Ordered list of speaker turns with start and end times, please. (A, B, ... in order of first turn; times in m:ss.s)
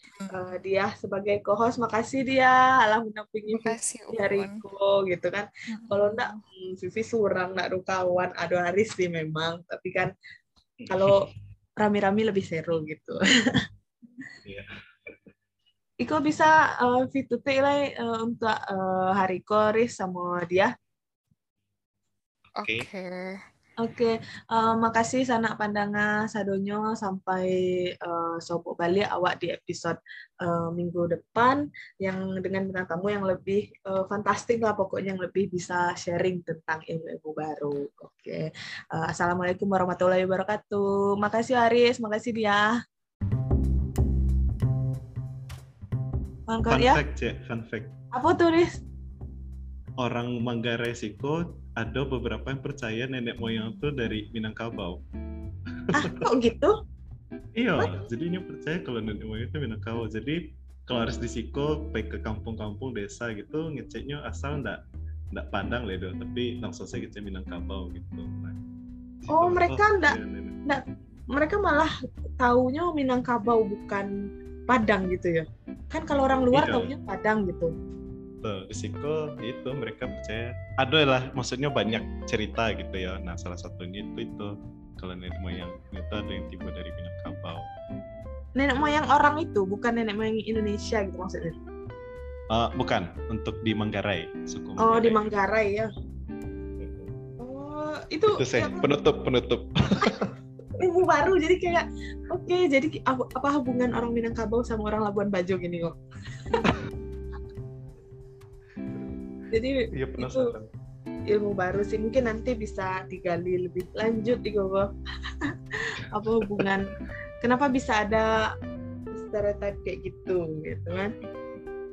0:00.2-0:00.5 A
0:00.3-0:10.1 B
0:03.5-0:04.6 A
0:05.7-0:06.4 A
0:10.8-0:11.1 C
0:10.9-0:11.3 B
0:11.8-0:13.2 B
0:14.4-0:15.1 C
0:16.0-0:20.7 B
0:22.6-0:23.4 A
0:23.8-0:42.7 B
0:46.5-0:47.0 B
0:46.7-0:47.9 C
0:48.1-0:48.8 B
0:50.0-0:55.0 C
0:55.8-0:56.2 C
0:55.9-0:56.7 B
0:57.5-1:08.6 C
1:09.2-1:10.6 C
1:09.3-1:10.8 B
1:11.3-1:14.1 B
1:14.7-1:17.7 B
1:16.5-1:16.9 C
1:18.4-1:27.7 C
1:28.6-1:31.6 B
1:32.5-1:35.3 C
1:34.8-1:35.9 B
1:36.8-1:37.1 C
1:37.4-1:38.9 B
1:38.4-1:40.3 C
1:40.8-1:46.0 B
1:49.5-1:50.5 B
1:49.9-1:50.7 C
1:51.3-1:54.9 B
1:55.8-1:58.4 B
1:59.1-2:01.1 B